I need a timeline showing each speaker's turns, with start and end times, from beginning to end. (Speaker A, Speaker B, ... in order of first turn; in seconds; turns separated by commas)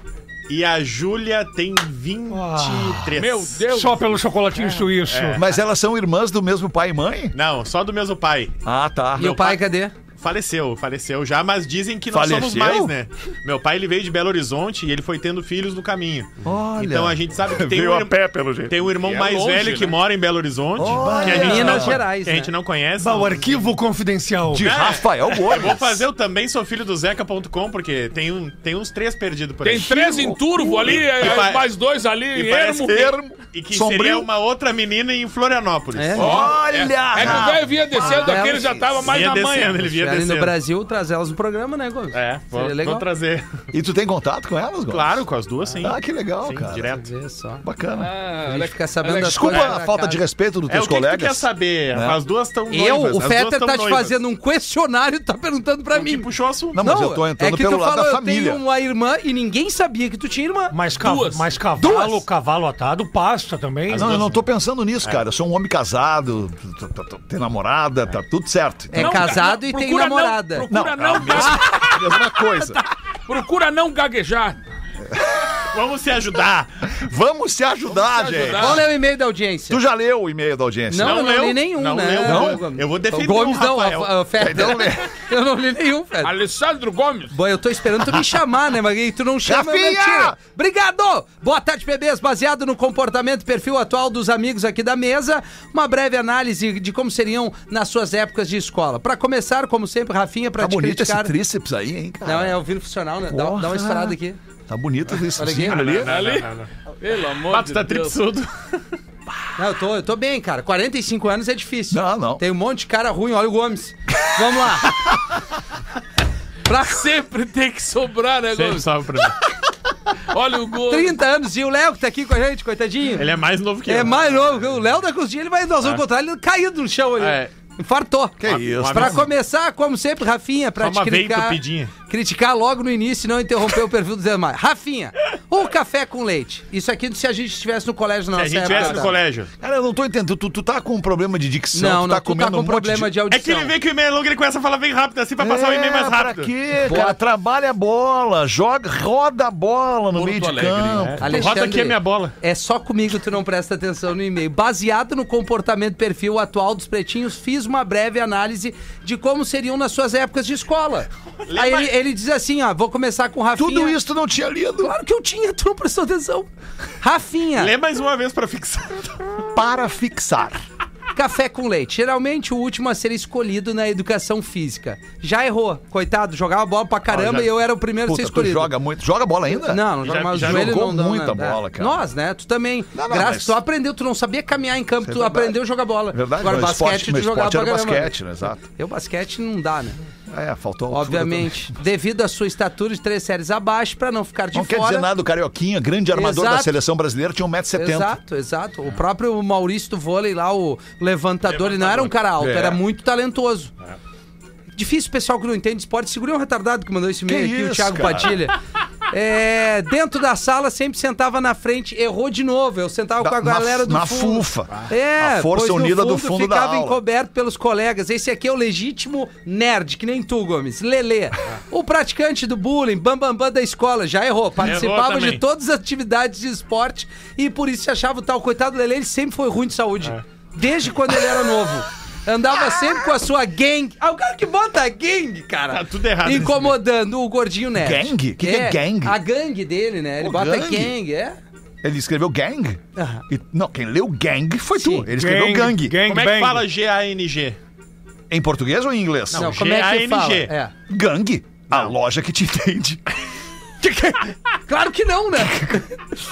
Speaker A: 0.5-3.6, Speaker B: 2.3-3.1, Speaker C: 3.2-4.2, Speaker B: 3.7-5.4, Speaker A: 4.6-5.6, Speaker D: 5.3-7.3, Speaker A: 7.3-8.6, Speaker D: 8.7-9.3, Speaker A: 9.2-9.6, Speaker E: 9.2-9.9, Speaker A: 10.2-23.8, Speaker D: 12.1-12.9, Speaker D: 16.4-18.9, Speaker C: 19.0-20.0, Speaker D: 20.8-22.0, Speaker E: 21.1-22.5, Speaker B: 23.0-24.7, Speaker D: 24.5-26.1, Speaker A: 24.6-30.2, Speaker C: 29.6-33.1, Speaker D: 29.9-31.1, Speaker A: 30.8-31.7, Speaker A: 32.3-36.5, Speaker D: 32.8-34.3, Speaker E: 36.0-36.3, Speaker D: 36.2-38.9, Speaker C: 36.2-39.8, Speaker A: 37.2-37.5, Speaker E: 38.0-38.9, Speaker A: 39.0-40.5, Speaker E: 39.7-43.1, Speaker A: 42.1-43.7, Speaker D: 43.7-45.2, Speaker A: 44.9-47.1, Speaker D: 45.8-46.9, Speaker E: 46.9-47.6, Speaker D: 47.6-48.1, Speaker C: 48.0-49.6, Speaker E: 48.5-50.2, Speaker D: 49.1-52.2, Speaker A: 50.7-54.2, Speaker E: 52.7-60.7, Speaker A: 55.9-56.8, Speaker D: 56.7-58.6, Speaker B: 60.7-64.2, Speaker C: 61.0-61.5, Speaker E: 61.8-62.2, Speaker A: 63.9-64.4, Speaker D: 63.9-69.3, Speaker E: 68.9-70.7, Speaker C: 69.0-71.9, Speaker D: 70.7-72.8, Speaker E: 71.3-72.8, Speaker C: 73.3-74.6, Speaker D: 75.1-75.5, Speaker A: 75.6-76.9, Speaker D: 76.9-78.9, Speaker C: 77.9-78.9, Speaker E: 78.5-79.8, Speaker D: 79.7-81.2, Speaker E: 80.9-86.4, Speaker A: 81.0-84.2, Speaker D: 82.2-82.6, Speaker D: 84.4-85.1, Speaker C: 86.2-87.4, Speaker E: 87.3-101.3, Speaker D: 89.4-90.4, Speaker D: 100.6-102.6, Speaker E: 102.2-104.4, Speaker D: 103.3-104.2, Speaker D: 104.7-106.1, Speaker E: 105.4-106.0, Speaker A: 105.6-106.7, Speaker C: 106.0-108.2, Speaker A: 107.5-109.0, Speaker E: 109.6-115.0, Speaker D: 111.9-112.4, Speaker E: 116.7-117.0, Speaker C: 116.8-118.9, Speaker A: 118.5-119.4, Speaker C: 120.3-121.2, Speaker E: 120.9-123.3, Speaker A: 123.2-124.7, Speaker E: 123.9-139.1, Speaker A: 127.2-127.5, Speaker D: 128.4-129.3, Speaker A: 128.4-129.3, Speaker A: 130.8-131.9, Speaker A: 138.3-139.5, Speaker D: 139.6-143.1, Speaker E: 141.7-143.7, Speaker A: 143.3-146.5, Speaker D: 145.4-151.5, Speaker E: 146.8-147.2, Speaker C: 150.1-151.1, Speaker A: 151.0-152.3, Speaker E: 151.2-164.0, Speaker A: 161.5-161.9, Speaker D: 163.6-164.9, Speaker E: 164.8-166.5, Speaker E: 167.0-167.7, Speaker A: 167.6-169.4, Speaker D: 169.5-170.6, Speaker E: 171.1-178.7, Speaker A: 177.1-177.5, Speaker D: 178.1-182.0, Speaker E: 179.5-188.1, Speaker A: 180.0-180.7, Speaker D: 182.9-183.6, Speaker D: 185.1-185.6, Speaker D: 186.1-188.6, Speaker E: 188.7-190.0, Speaker D: 190.3-191.8, Speaker E: 190.9-195.1, Speaker D: 194.5-198.2, Speaker E: 196.1-196.8, Speaker E: 197.8-203.7, Speaker A: 201.5-202.2, Speaker D: 202.4-202.8, Speaker E: 204.7-208.6, Speaker D: 207.3-208.4, Speaker E: 209.1-241.4, Speaker D: 213.2-217.0, Speaker A: 224.6-225.4, Speaker A: 235.7-236.8, Speaker D: 237.8-239.2, Speaker D: 240.2-240.9, Speaker D: 241.8-246.0, Speaker E: 242.9-243.2, Speaker E: 244.8-245.1, Speaker B: 245.1-246.6, Speaker A: 246.1-247.6, Speaker D: 248.3-249.5, Speaker A: 249.3-250.5, Speaker E: 249.4-250.7, Speaker D: 250.9-253.0, Speaker A: 251.7-251.9, Speaker E: 253.8-256.0